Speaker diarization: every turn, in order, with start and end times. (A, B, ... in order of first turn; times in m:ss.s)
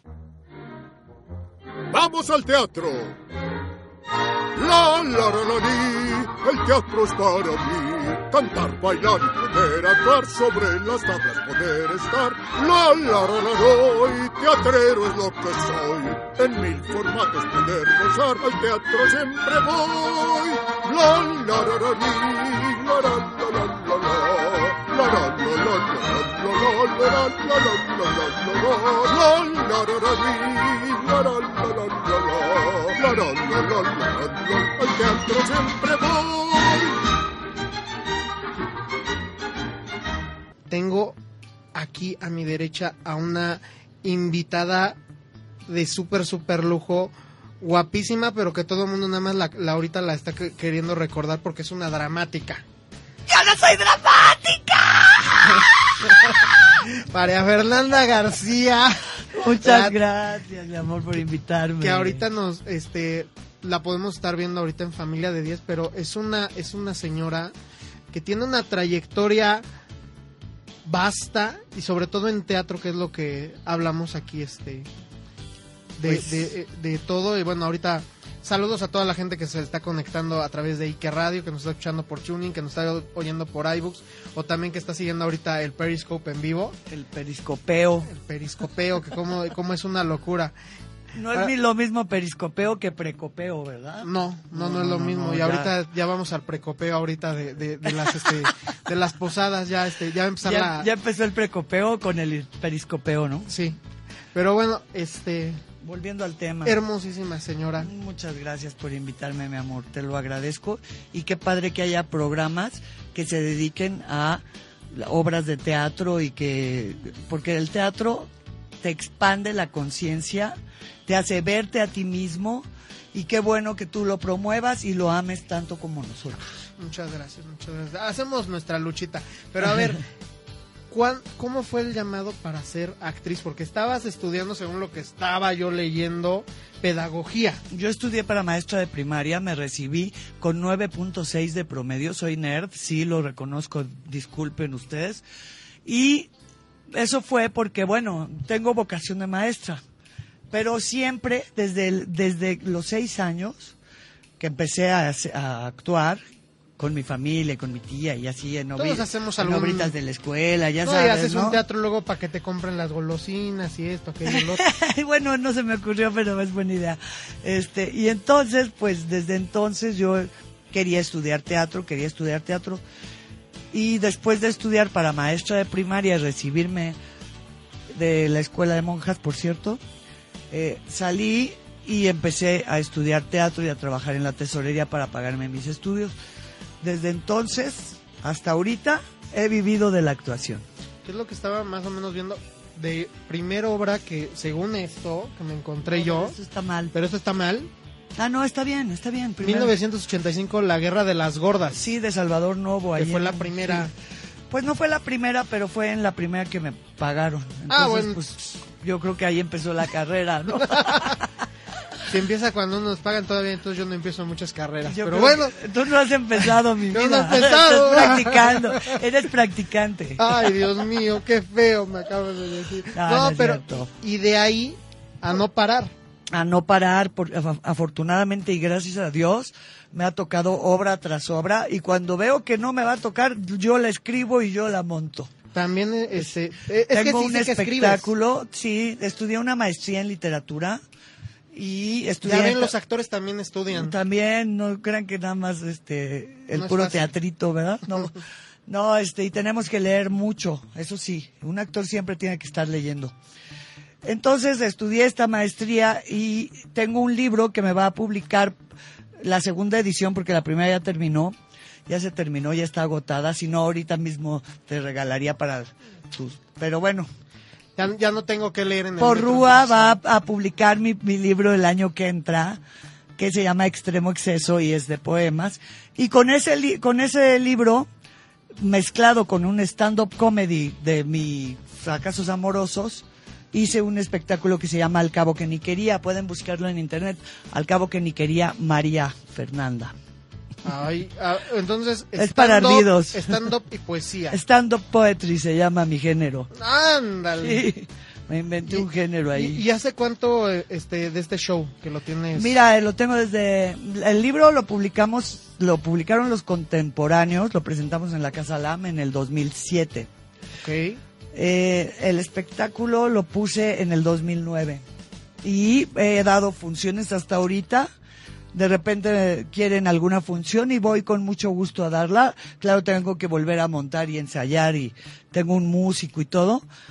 0:01.9-0:03.2 A
0:04.6-0:37.0 A
0:40.7-0:41.2 B
0:41.8-0:45.0 B
0:45.7-0:52.6 B
0:53.3-0:56.8 C
0:56.8-1:00.0 B
0:59.3-1:02.2 C
1:01.8-1:07.5 B
1:08.1-1:09.6 B
1:10.8-1:14.9 B
1:16.0-1:26.8 B
1:16.0-1:16.4 C
1:26.9-1:28.1 C
1:28.1-1:30.5 B
1:31.2-1:35.7 C
1:34.0-1:40.9 B
1:38.1-1:38.5 C
1:40.4-1:43.5 C
1:43.5-1:43.8 B
1:44.3-1:45.6 B
1:45.8-1:46.8 C
1:46.6-1:47.9 B
1:47.8-1:58.3 C
1:58.8-2:06.5 C
2:06.8-2:10.0 B
2:10.9-2:17.6 B
2:17.7-2:25.2 C
2:25.8-2:26.3 C
2:26.9-2:29.8 C
2:30.5-2:33.8 C
2:34.4-2:36.2 C
2:36.8-2:41.6 C
2:38.8-2:39.9 B
2:40.8-2:44.7 B
2:44.3-2:52.8 C
2:53.7-2:57.0 C
2:57.9-2:59.8 C
3:00.5-3:06.1 C
3:06.8-3:10.6 C
3:11.0-3:16.4 B
3:15.9-3:16.9 C
3:16.9-3:17.7 B
3:18.2-3:19.7 C
3:19.4-3:21.9 B
3:21.7-3:23.9 C
3:23.0-3:23.9 B
3:24.5-3:31.3 C
3:27.7-3:28.2 B
3:30.6-3:31.1 B
3:32.1-3:35.6 B
3:34.8-3:40.6 C
3:36.9-3:39.0 B
3:40.2-3:45.9 B
3:42.9-3:43.9 C
3:46.3-3:55.3 C
3:55.5-3:58.1 B
3:56.9-4:00.8 C
4:01.5-4:02.7 C
4:02.2-4:04.0 B
4:03.7-4:08.1 C
4:06.5-4:07.1 B
4:08.7-4:13.1 C
4:14.0-4:18.6 C
4:19.2-4:21.4 C
4:21.9-4:27.1 C
4:27.8-4:30.0 B
4:29.0-4:32.6 C
4:33.2-4:37.9 C
4:38.6-4:50.0 C
4:50.6-4:54.4 B
4:52.2-4:53.4 C
4:54.3-4:56.5 C
4:56.5-4:57.7 B
4:57.4-4:59.6 C
4:58.7-5:02.6 B
5:02.4-5:10.1 C
5:10.6-5:11.0 B
5:11.3-5:14.8 C
5:15.4-5:17.9 C
5:18.5-5:26.6 C